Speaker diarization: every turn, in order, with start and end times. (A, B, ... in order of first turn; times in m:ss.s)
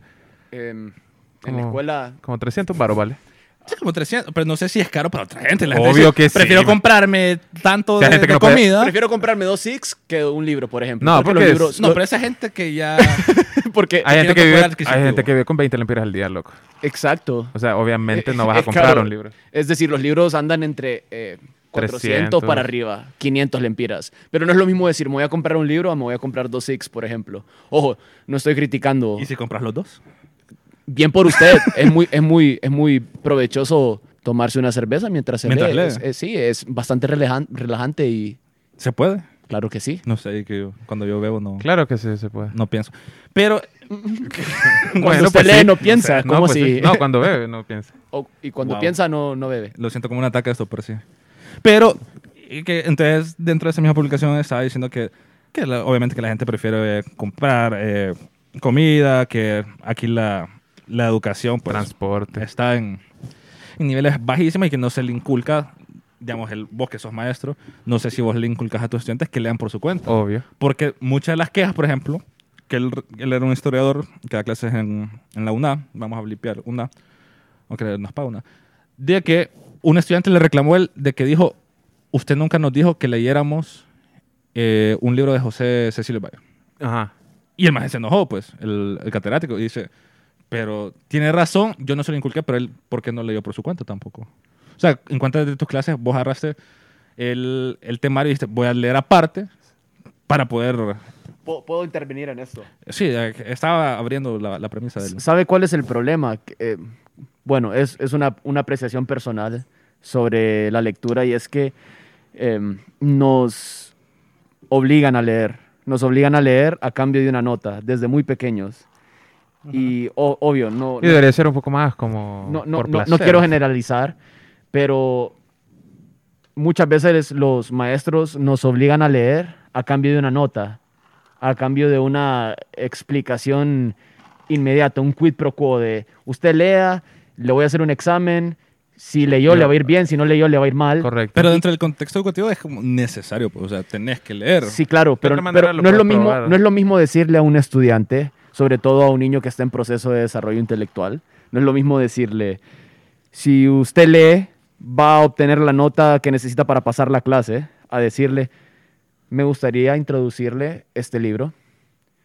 0:00.5-0:02.2 A
0:01.5-0:03.2 B
0:03.7-0:09.0 C
0:05.7-0:06.8 B
0:08.0-0:08.7 B
0:08.7-0:12.0 A
0:11.0-0:12.0 B
0:11.8-0:13.3 C
0:13.0-0:14.1 A
0:14.0-0:16.6 B
0:14.1-0:15.3 C
0:16.8-0:17.5 A
0:17.5-0:19.3 B
0:18.1-0:29.3 A
0:21.8-0:22.7 B
0:29.2-0:30.0 C
0:30.9-0:38.4 A
0:35.4-0:36.0 C
0:38.8-0:39.3 C
0:39.5-0:40.0 A
0:40.1-0:41.7 C
0:41.6-0:42.6 B
0:42.5-0:43.7 C
0:43.9-0:47.1 A
0:44.8-0:46.2 C
0:44.9-0:47.9 B
0:48.1-0:49.7 A
0:48.6-0:49.0 C
0:49.8-0:51.0 C
0:51.6-1:03.0 C
1:01.7-1:02.4 B
1:03.8-1:16.9 C
1:10.1-1:10.4 B
1:17.7-1:18.4 C
1:19.0-1:21.6 C
1:22.1-1:23.8 C
1:24.6-1:26.4 C
1:26.8-1:27.1 B
1:27.6-1:29.9 C
1:30.5-1:34.3 C
1:34.8-1:36.6 C
1:37.2-1:39.5 C
1:40.3-1:41.0 C
1:41.5-1:42.7 A
1:42.9-1:45.2 C
1:45.0-1:46.8 A
1:47.4-1:51.7 A
1:52.4-1:53.9 A
1:54.7-1:58.8 A
1:59.7-2:01.2 A
2:01.0-2:03.5 B
2:02.4-2:04.2 A
2:04.7-2:05.4 A
2:06.6-2:10.8 A
2:11.4-2:14.0 A
2:14.5-2:21.1 A
2:19.5-2:19.8 B
2:21.0-2:21.6 B
2:21.4-2:24.8 C
2:24.6-2:32.6 A
2:25.2-2:26.6 B
2:33.3-2:38.5 A
2:39.3-2:41.5 A